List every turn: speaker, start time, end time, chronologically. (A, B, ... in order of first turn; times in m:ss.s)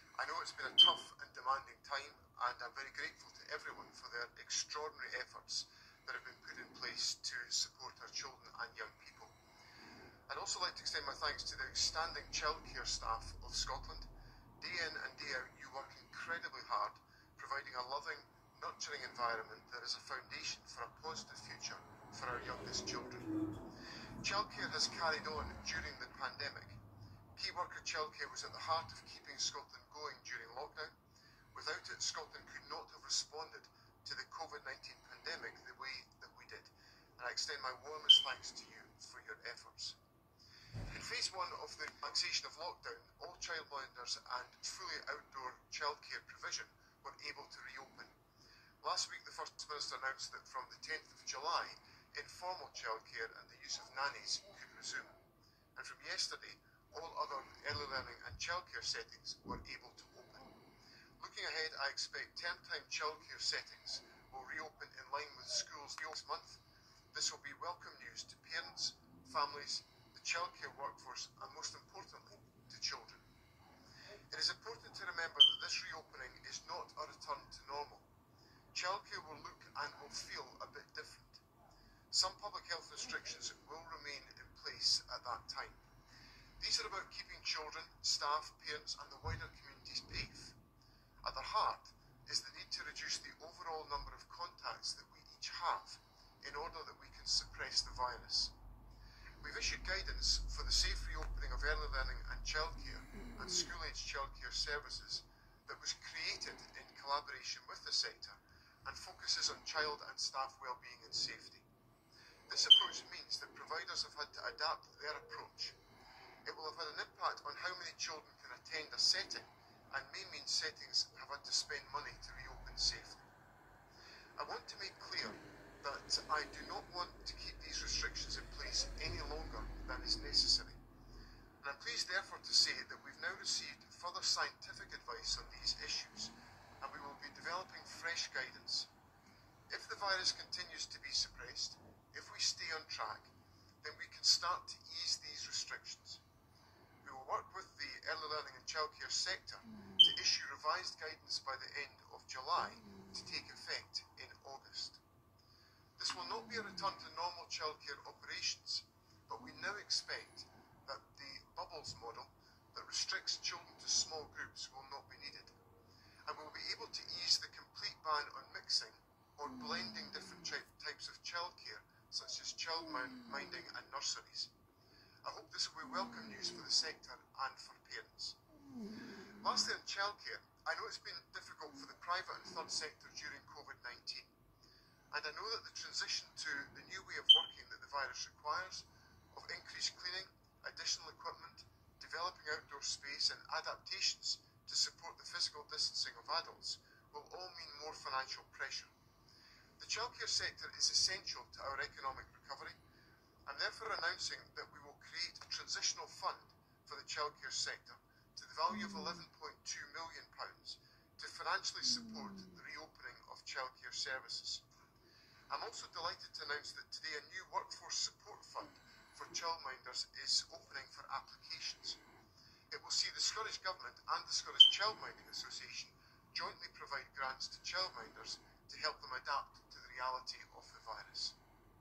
0:00.2-0:09.4 A
0:10.3-0:23.4 A
0:24.2-0:26.8 A
0:27.4-0:30.9 A
0:31.5-0:40.0 A
0:40.9-0:48.2 A
0:48.8-0:55.1 A
0:55.8-1:00.6 A
1:01.2-1:06.6 A
1:07.1-1:13.2 A
1:14.3-1:18.1 A
1:18.7-1:21.4 A
1:22.1-1:25.8 A
1:26.6-1:30.6 A
1:31.2-1:38.5 A
1:39.4-1:51.7 A
1:52.5-1:55.8 A
1:56.4-2:03.3 A
2:04.4-2:10.8 A
2:11.6-2:18.9 A
2:19.7-2:26.2 A
2:27.0-2:35.0 A
2:36.0-2:45.6 A
2:46.3-2:54.5 A
2:55.2-2:58.4 A
2:59.4-3:04.3 A
3:05.1-3:18.9 A
3:19.8-3:22.8 A
3:23.5-3:34.6 A
3:35.5-3:42.0 A
3:42.7-3:51.4 A